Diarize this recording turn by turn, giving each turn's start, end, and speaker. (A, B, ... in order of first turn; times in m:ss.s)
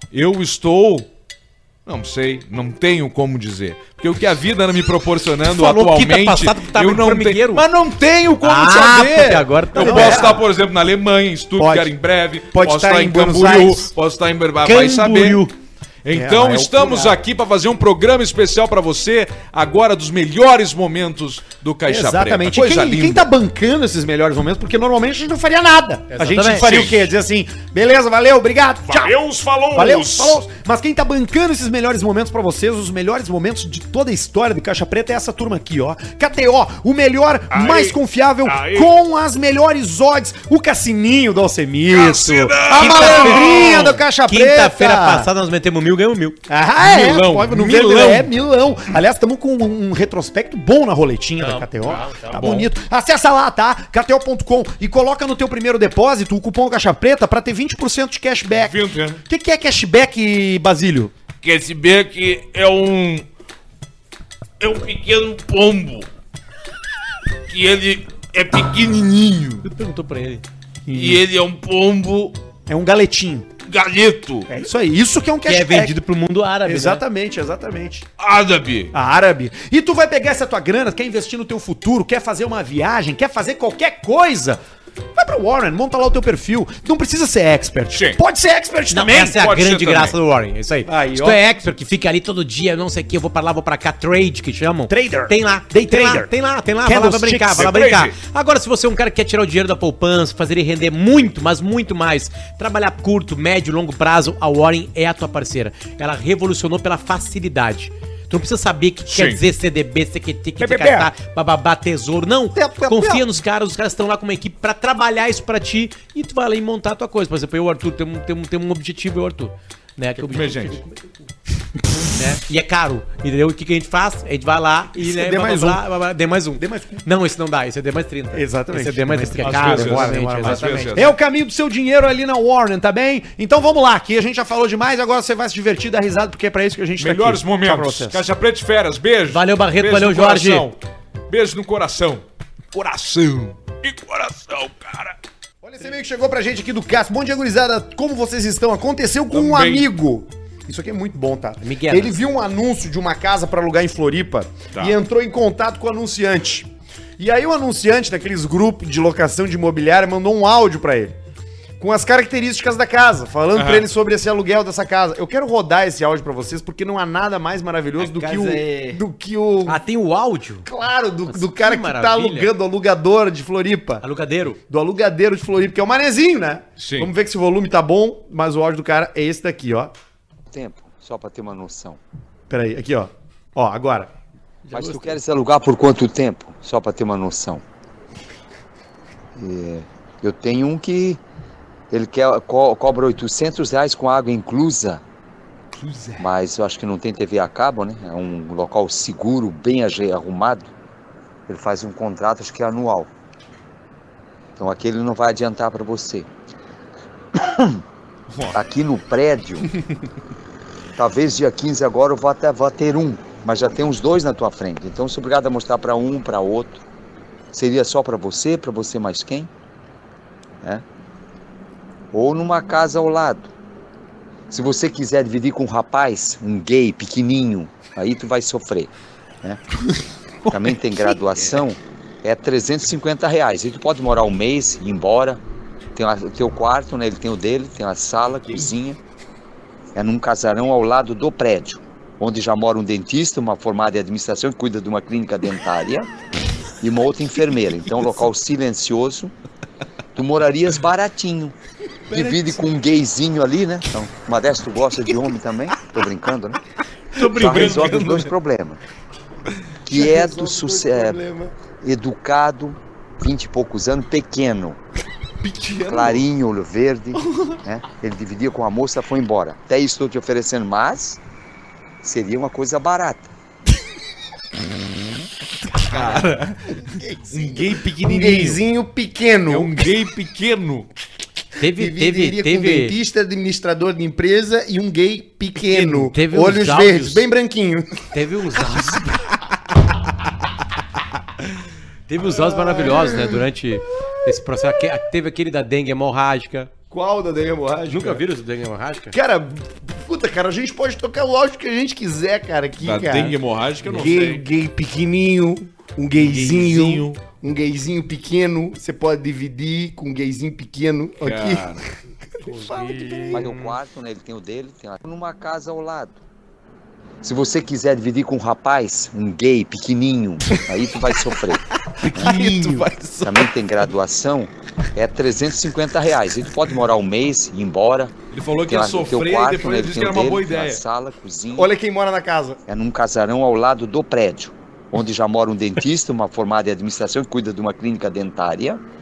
0:00.1-0:01.1 A
0:01.9-0:15.5 A
0:05.5-0:07.6 B
0:08.4-0:10.4 B
0:09.7-0:10.5 C
0:11.6-0:11.9 C
0:12.5-0:13.9 C
0:14.6-0:15.5 B
0:16.0-0:23.3 A
0:16.1-0:17.2 C
0:21.9-0:45.3 C
0:26.1-0:26.7 B
0:26.4-0:27.1 A
0:28.9-0:30.4 D
0:37.5-0:38.9 D
0:41.9-0:43.9 D
0:42.2-0:46.4 B
0:42.8-0:43.9 A
0:46.5-1:01.1 C
0:46.8-0:48.3 A
0:51.4-0:52.7 B
0:52.4-0:52.7 A
0:58.6-0:59.2 A
1:01.4-1:03.3 D
1:04.6-1:06.1 D
1:07.5-1:09.6 D
1:09.6-1:10.4 B
1:10.9-1:11.2 C
1:10.9-1:12.4 D
1:12.7-1:13.5 C
1:13.7-1:14.5 D
1:14.5-1:16.0 C
1:15.5-1:17.0 B
1:16.6-1:18.1 C
1:18.2-1:18.9 D
1:18.9-1:24.6 C
1:25.2-1:29.4 C
1:27.9-1:28.2 A
1:28.9-2:01.1 B
1:29.2-1:30.2 A
1:30.9-1:31.4 C
1:34.9-1:36.3 C
1:36.8-1:37.7 C
1:37.6-1:38.2 A
1:49.1-1:49.4 A
1:50.6-1:51.1 C
1:52.5-1:53.2 C
2:00.2-2:00.8 A
2:02.1-2:11.0 B
2:05.0-2:05.8 C
2:06.6-2:07.0 C
2:08.3-2:18.2 C
2:09.4-2:11.2 A
2:17.0-2:20.8 A
2:19.3-2:20.7 B
2:21.3-2:25.2 A
2:25.6-2:41.1 C
2:29.3-2:29.9 A
2:31.6-2:32.2 B
2:41.8-2:49.8 C
2:43.6-2:43.9 A
2:48.0-2:49.0 A
2:49.7-2:50.7 B
2:50.7-2:54.0 C
2:51.3-2:52.5 B
2:54.0-2:54.6 B
2:54.7-2:59.9 C
2:56.8-2:57.1 A
3:00.5-3:02.0 E
3:02.5-3:04.1 C
3:04.6-3:05.2 B
3:04.7-3:07.6 E
3:09.4-3:11.2 E
3:11.9-3:15.0 E
3:16.2-3:20.7 E
3:21.5-3:23.1 E
3:24.6-3:26.3 E
3:27.4-3:27.8 E
3:28.5-3:29.7 E
3:31.0-3:36.8 E
3:37.5-3:39.5 E
3:42.1-3:43.5 E
3:44.5-3:48.9 E
3:50.5-3:55.4 E
3:56.0-3:59.0 E
4:00.0-4:06.1 E
4:06.8-4:09.3 E
4:10.2-4:11.6 E
4:12.1-4:16.6 E
4:12.1-4:12.5 A
4:17.2-4:18.3 B
4:17.2-4:18.8 E
4:17.5-4:17.9 A
4:19.8-4:21.2 E
4:19.9-4:21.5 C
4:21.8-4:24.8 E
4:25.4-4:26.2 A
4:25.9-4:31.2 E
4:32.0-4:33.3 E
4:35.8-4:36.8 A
4:35.9-4:36.3 C
4:36.9-4:39.9 C
4:37.3-4:38.6 A
4:39.5-4:40.9 A
4:41.6-4:43.0 B
4:41.8-4:48.1 C
4:45.7-4:47.2 B
4:48.1-4:49.2 B
4:52.1-4:56.7 B
4:52.2-4:53.4 C
4:56.9-4:58.2 C
4:57.9-4:59.1 B
4:59.1-5:03.4 C
5:02.8-5:04.4 A
5:03.8-5:04.1 B
5:03.9-5:11.7 C
5:06.2-5:07.2 A
5:11.2-5:11.8 A
5:12.4-5:13.5 C
5:12.5-5:13.7 B
5:13.3-5:16.2 E
5:17.2-5:22.3 E
5:22.0-5:22.9 C
5:22.1-5:23.3 A
5:23.2-5:28.1 E
5:28.3-5:30.8 A
5:28.7-5:31.7 E
5:31.6-5:32.6 C
5:32.7-5:38.8 E